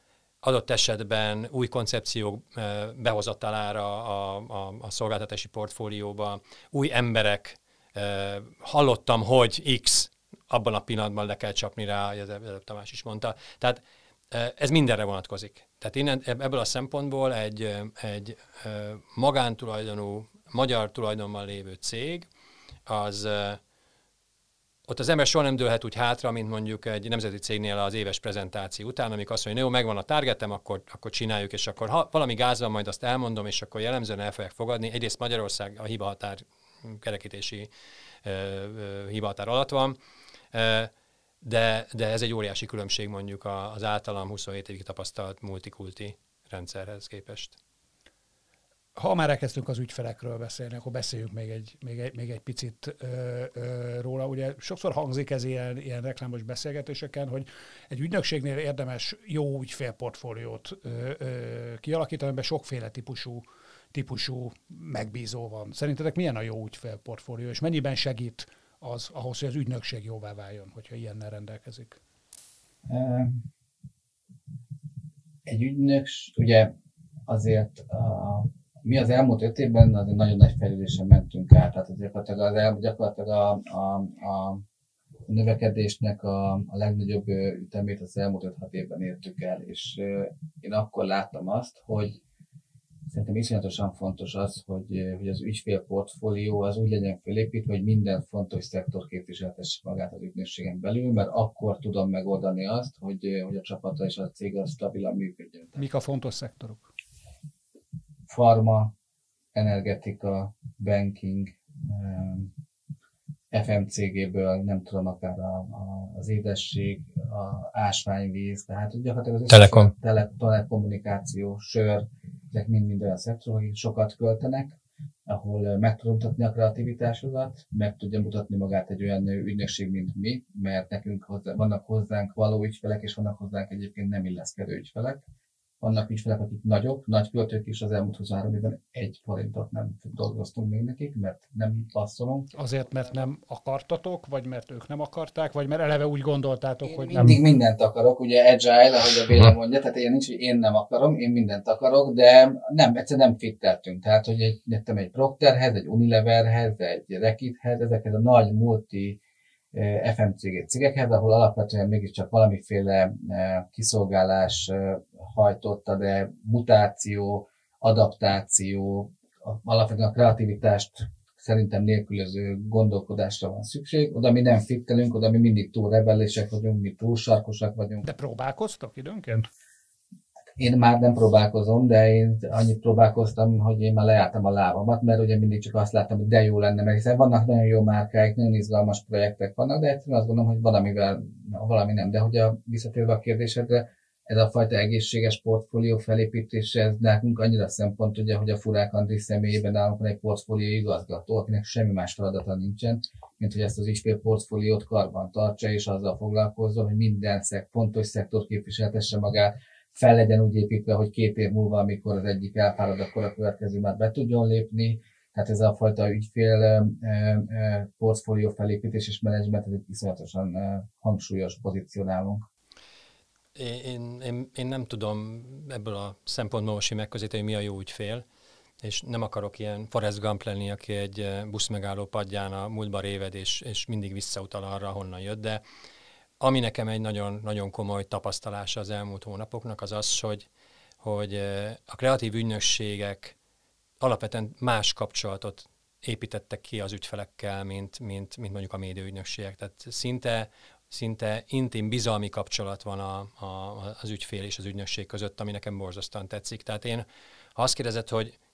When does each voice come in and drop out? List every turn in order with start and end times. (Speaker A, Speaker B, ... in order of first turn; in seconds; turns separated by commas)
Speaker A: 0.4-22.3, Speaker A: 22.9-23.6, Speaker A: 24.9-37.7, Speaker A: 38.2-40.0, Speaker A: 40.5-47.6, Speaker B: 49.0-72.0, Speaker C: 72.9-73.5, Speaker C: 75.5-76.7, Speaker C: 77.3-84.6, Speaker C: 85.3-92.2, Speaker C: 93.1-105.8, Speaker B: 105.8-106.9, Speaker C: 108.3-108.9, Speaker C: 109.5-112.5, Speaker C: 113.5-135.2, Speaker A: 119.5-119.9, Speaker C: 135.8-142.5, Speaker B: 142.5-147.4, Speaker C: 146.8-159.2, Speaker C: 159.7-178.0, Speaker B: 178.0-179.5, Speaker C: 180.6-222.4, Speaker A: 223.6-228.2, Speaker A: 228.8-235.6, Speaker A: 236.4-240.5, Speaker A: 241.0-243.4, Speaker A: 244.0-258.3